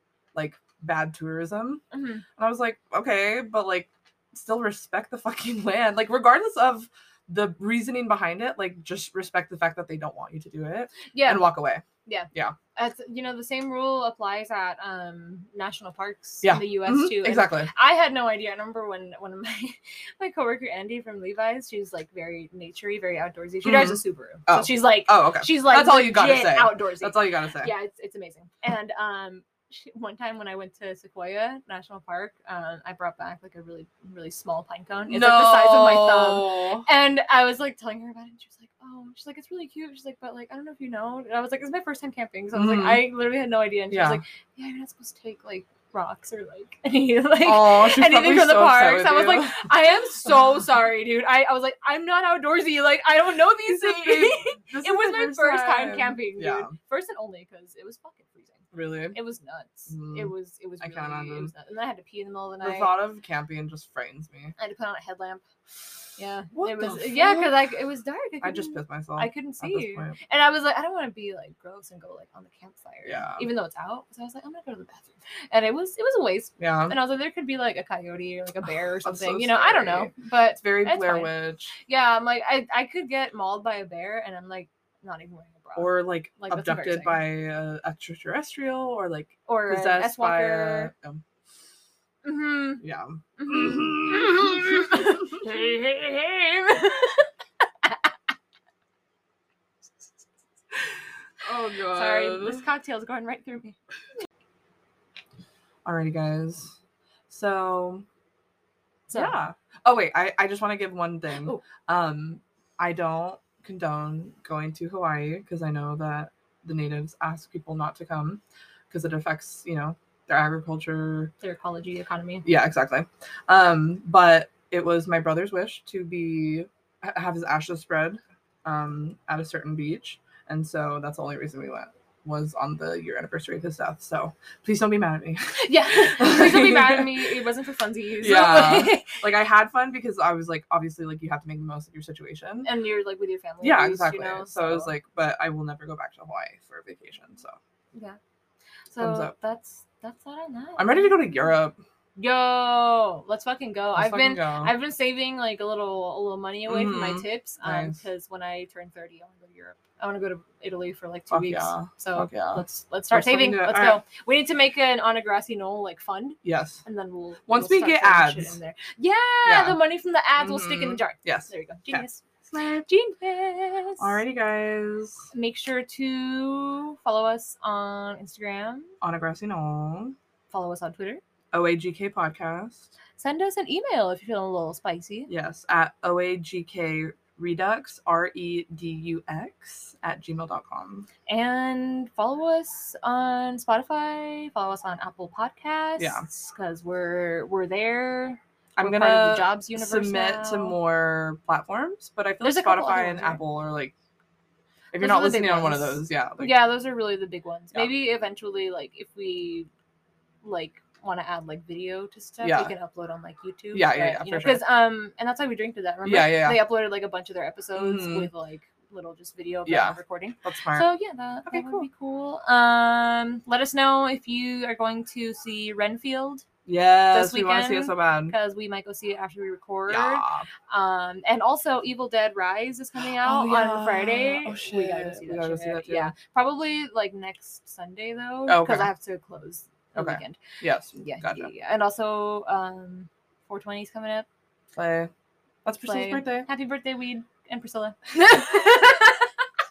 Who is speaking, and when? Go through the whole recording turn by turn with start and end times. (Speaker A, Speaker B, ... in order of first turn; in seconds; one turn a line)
Speaker A: 0.3-1.8
Speaker B: 1.9-2.2
Speaker A: 2.4-12.6
Speaker B: 11.1-11.5
Speaker B: 12.0-63.0
Speaker A: 16.4-17.7
Speaker A: 23.6-27.7
Speaker A: 35.1-36.9
Speaker A: 42.5-43.0
Speaker A: 43.9-44.2
Speaker A: 47.4-49.7
Speaker A: 53.6-56.7
Speaker A: 58.7-59.2
Speaker A: 59.9-61.5
Speaker A: 62.6-64.5
Speaker B: 64.6-65.4
Speaker B: 66.2-81.3
Speaker A: 66.5-67.6
Speaker A: 68.4-70.2
Speaker A: 73.0-73.4
Speaker A: 76.6-77.0
Speaker A: 79.0-81.7
Speaker B: 81.8-87.2
Speaker A: 85.8-91.2
Speaker B: 89.5-90.9
Speaker B: 92.2-92.8
Speaker A: 92.8-95.6
Speaker B: 93.4-97.3
Speaker A: 101.4-102.7
Speaker B: 101.9-103.8
Speaker A: 105.8-106.8
Speaker A: 107.3-108.0
Speaker B: 109.1-109.3
Speaker A: 109.1-121.3
Speaker B: 121.4-122.5
Speaker A: 122.4-137.4
Speaker B: 135.6-139.1
Speaker A: 138.2-142.7
Speaker B: 142.6-144.9
Speaker A: 143.6-147.6
Speaker B: 148.9-151.4
Speaker A: 149.0-149.3
Speaker A: 150.8-151.8
Speaker B: 152.2-174.2
Speaker A: 153.9-154.7
Speaker A: 156.7-158.0
Speaker A: 161.3-164.0
Speaker A: 166.4-166.8
Speaker A: 167.5-168.6
Speaker A: 169.4-169.8
Speaker A: 170.4-172.8
Speaker A: 174.0-175.2
Speaker B: 175.3-178.9
Speaker A: 179.0-180.1
Speaker B: 180.5-181.2
Speaker A: 181.5-182.9
Speaker B: 183.2-185.3
Speaker A: 185.3-191.1
Speaker B: 191.3-200.8
Speaker A: 196.0-196.2
Speaker A: 198.8-203.9
Speaker B: 202.4-203.4
Speaker A: 204.9-206.6
Speaker B: 204.9-209.7
Speaker B: 210.4-226.4
Speaker A: 212.4-212.7
Speaker A: 213.7-214.6
Speaker A: 216.0-216.6
Speaker A: 217.7-218.3
Speaker A: 219.7-220.9
Speaker A: 221.4-221.9
Speaker A: 226.7-228.3
Speaker B: 227.1-240.4
Speaker A: 229.9-230.5
Speaker A: 233.2-236.1
Speaker A: 238.5-238.9
Speaker A: 239.9-241.5
Speaker B: 240.9-244.2
Speaker A: 244.7-245.1
Speaker A: 245.6-246.5
Speaker B: 245.8-249.3